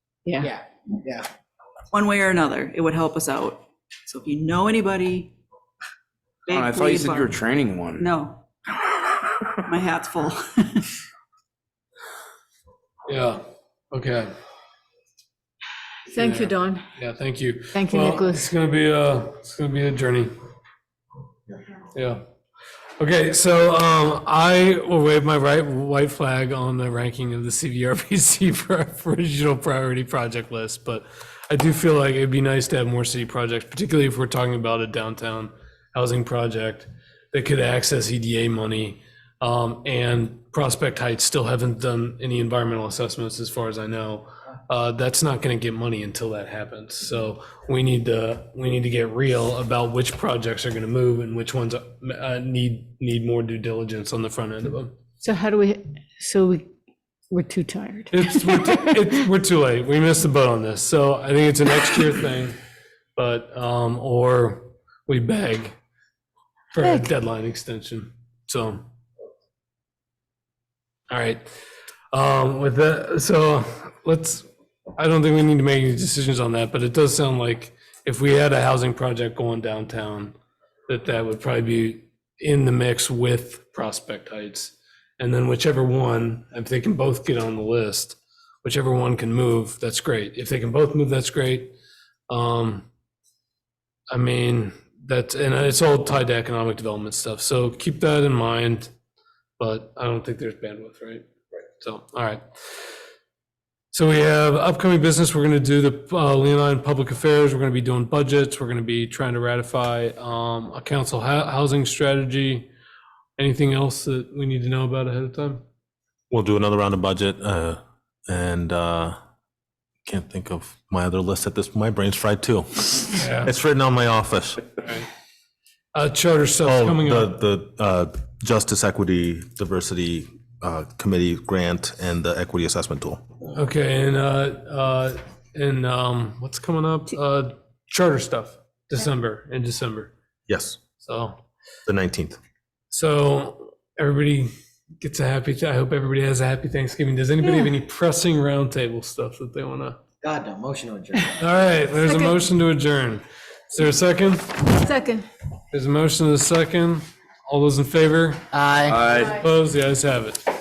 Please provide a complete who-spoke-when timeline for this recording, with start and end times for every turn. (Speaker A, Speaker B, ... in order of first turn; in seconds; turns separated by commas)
Speaker A: 0.2-0.5, Speaker B: 0.4-1.2, Speaker C: 1.9-5.3, Speaker C: 6.5-8.4, Speaker D: 6.5-8.1, Speaker C: 9.6-10.9, Speaker E: 13.1-13.4, Speaker E: 13.9-14.3, Speaker A: 16.1-16.9, Speaker E: 16.1-20.3, Speaker A: 17.7-18.5, Speaker E: 21.9-22.2, Speaker E: 23.0-54.9, Speaker A: 55.2-56.6, Speaker A: 57.3-59.0, Speaker E: 58.1-62.6, Speaker E: 63.1-65.8, Speaker E: 66.7-68.8, Speaker E: 71.1-71.4, Speaker E: 72.1-74.4, Speaker E: 75.0-80.4, Speaker E: 80.9-91.7, Speaker E: 92.3-92.9, Speaker E: 94.1-98.9, Speaker E: 99.6-102.4, Speaker E: 103.9-112.7, Speaker E: 113.4-115.6, Speaker F: 116.3-119.1, Speaker F: 120.0-124.7, Speaker E: 123.2-123.5, Speaker E: 125.9-127.3, Speaker F: 126.6-133.2, Speaker E: 133.4-140.1, Speaker F: 140.5-140.8, Speaker E: 141.0-141.4, Speaker F: 141.9-142.4, Speaker E: 142.9-150.0, Speaker B: 150.2-151.3, Speaker E: 151.4-154.8, Speaker A: 154.8-155.2, Speaker E: 155.7-158.4, Speaker B: 158.5-159.0, Speaker D: 158.9-159.3, Speaker E: 159.2-160.4